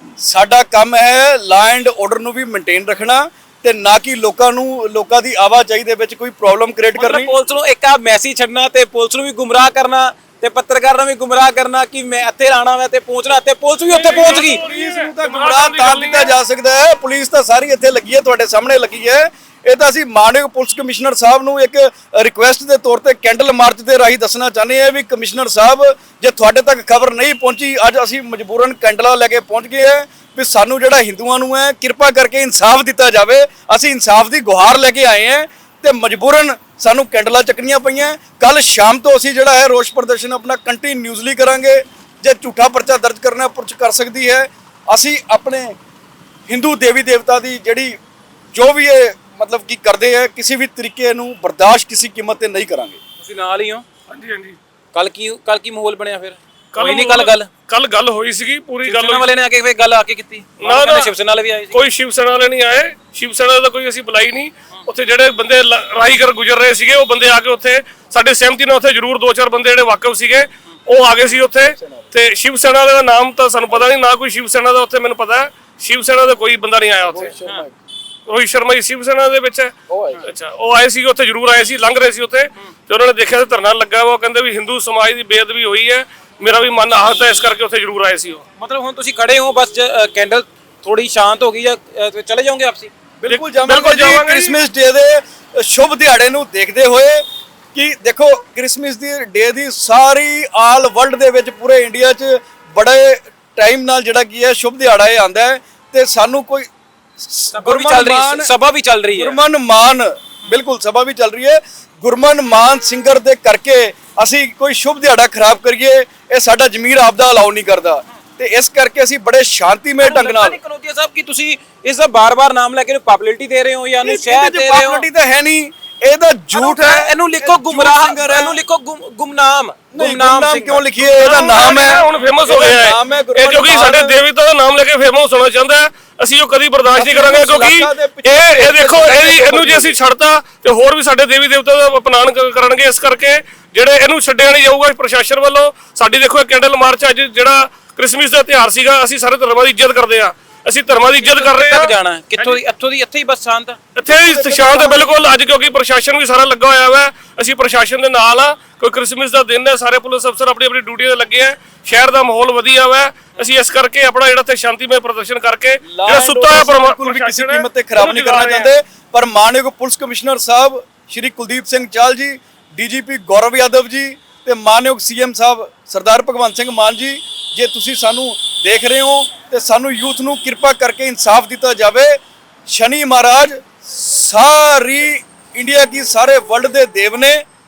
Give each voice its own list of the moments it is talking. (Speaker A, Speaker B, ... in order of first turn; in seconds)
Speaker A: 0.2-7.3, 14.3-45.8, 46.5-48.0, 48.5-53.0, 77.1-77.7, 79.9-80.3, 93.2-97.2, 97.7-108.5, 109.1-120.6, 124.0-128.6, 129.9-134.2, 136.9-140.0, 154.1-155.2, 165.9-182.2, 182.7-187.4
Speaker B: 7.0-14.6, 53.2-53.9, 54.9-57.5, 58.9-61.8, 88.6-92.9, 107.5-109.4, 120.0-125.1, 126.5-130.9, 151.2-153.8
Speaker C: 13.9-16.3, 54.1-54.6, 56.7-59.3, 60.6-61.1, 61.7-77.4, 78.3-88.4, 93.3-94.6, 131.1-152.6, 153.9-168.7